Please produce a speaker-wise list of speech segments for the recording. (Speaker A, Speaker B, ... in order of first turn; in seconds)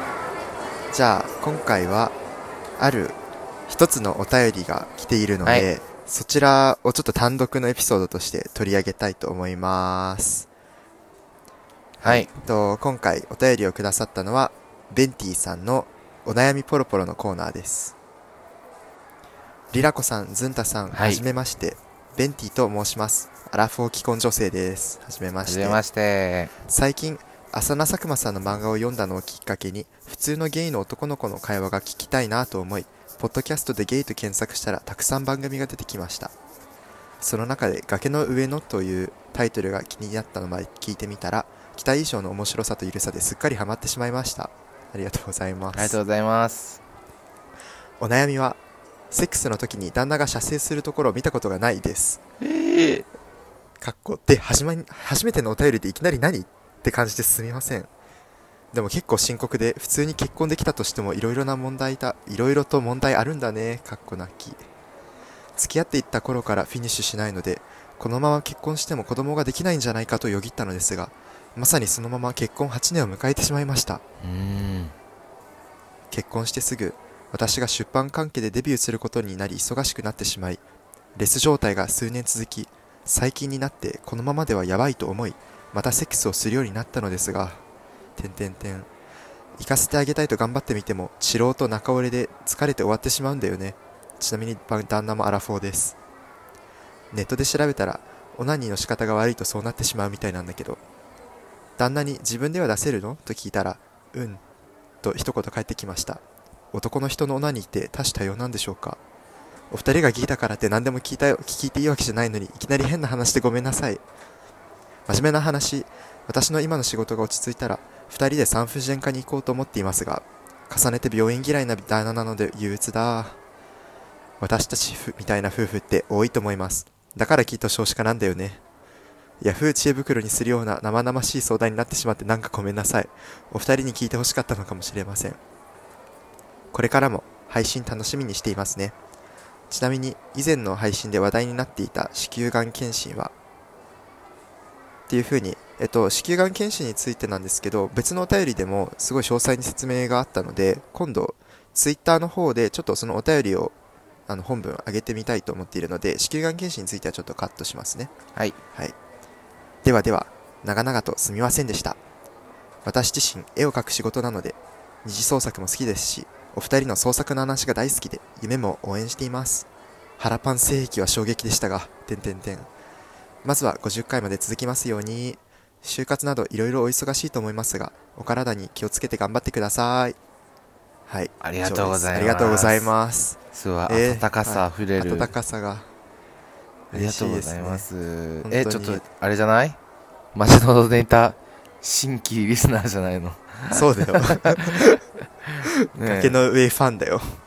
Speaker A: 0.9-2.1, 2.8-10.5, 12.0-17.9, 19.7-25.8, 26.7-36.3, 37.2-46.0, 48.0-48.6, 49.1-52.2, 53.8-57.9, 58.7-64.6, 65.6-74.0, 76.1-80.6, 81.2-87.6, 88.2-88.9, 89.6-96.0, 97.1-100.8, 101.8-104.4, 105.0-109.0, 109.7-114.0, 115.1-123.4, 124.4-128.6, 129.4-135.4, 136.7-138.9, 139.7-143.3, 145.1-153.7, 154.3-158.1, 159.8-162.0, 162.8-172.7, 173.4-180.2, 181.1-185.9, 186.9-187.8, 188.4-189.0, 193.7-194.8, 195.6-197.3
Speaker B: 5.4-5.7, 12.0-12.3, 20.9-21.2, 25.4-26.5, 45.7-46.8, 52.4-53.0, 74.2-74.9, 181.4-182.9, 183.5-185.3, 186.9-189.8, 190.3-196.4